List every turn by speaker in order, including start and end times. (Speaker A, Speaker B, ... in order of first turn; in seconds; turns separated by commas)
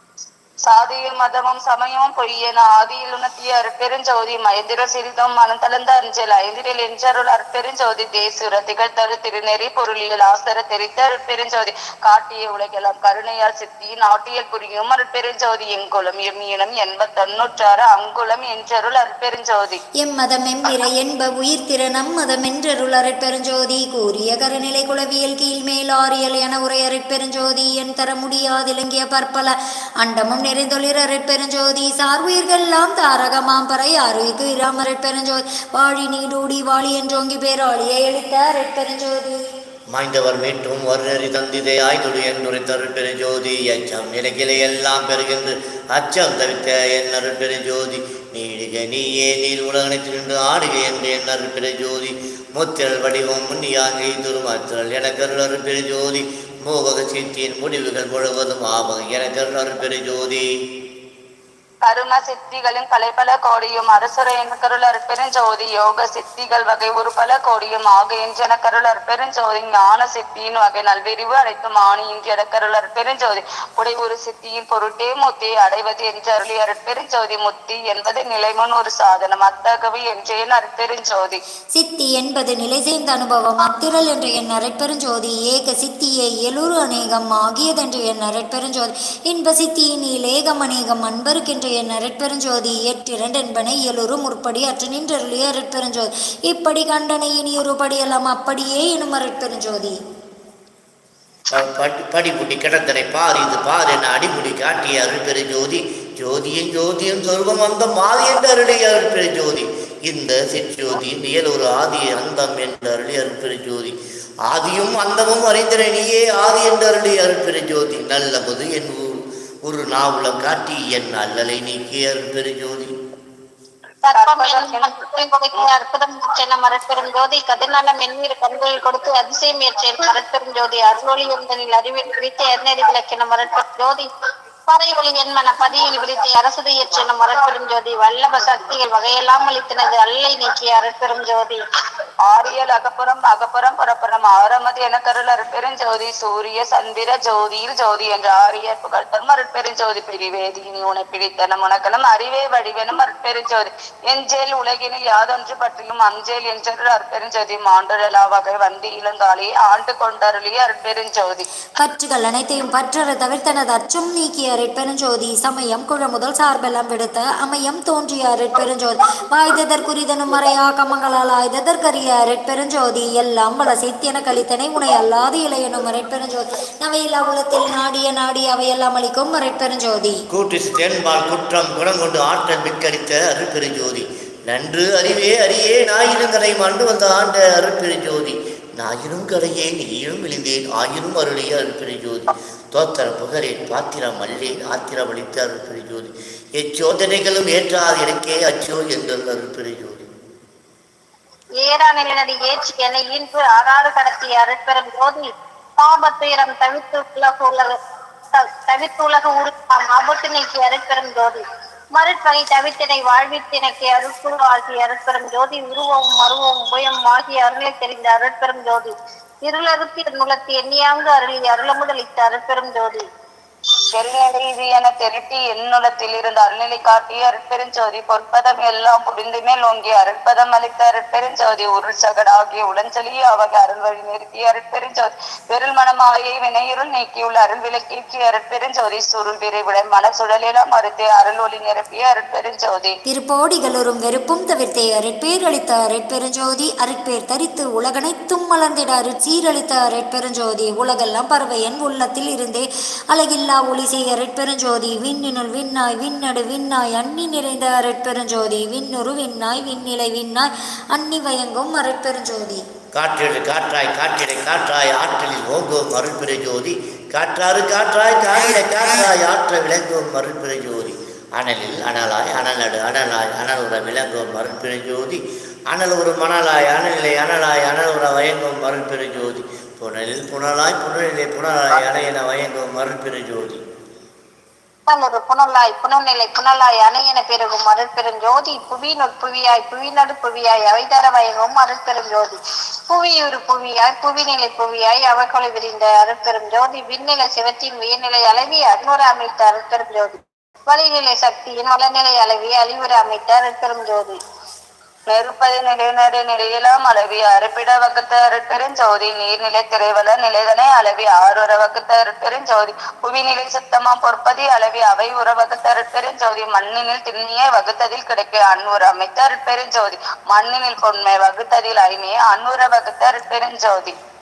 Speaker A: 0.6-19.8, Speaker B: 20.0-39.4, Speaker C: 39.9-60.5, Speaker A: 61.8-81.4, Speaker B: 81.7-100.0, Speaker C: 101.5-114.0, Speaker C: 114.5-122.9, Speaker D: 124.0-134.1, Speaker A: 124.1-124.9, Speaker D: 134.7-141.6, Speaker A: 142.2-161.5, Speaker B: 161.8-180.2, Speaker C: 180.3-200.1, Speaker D: 201.6-207.8, Speaker D: 208.3-211.4, Speaker D: 211.9-218.9, Speaker D: 219.4-223.0, Speaker A: 223.9-243.0, Speaker B: 243.1-262.6, Speaker C: 262.9-283.6, Speaker D: 284.9-292.4, Speaker D: 292.9-304.2, Speaker A: 305.1-323.9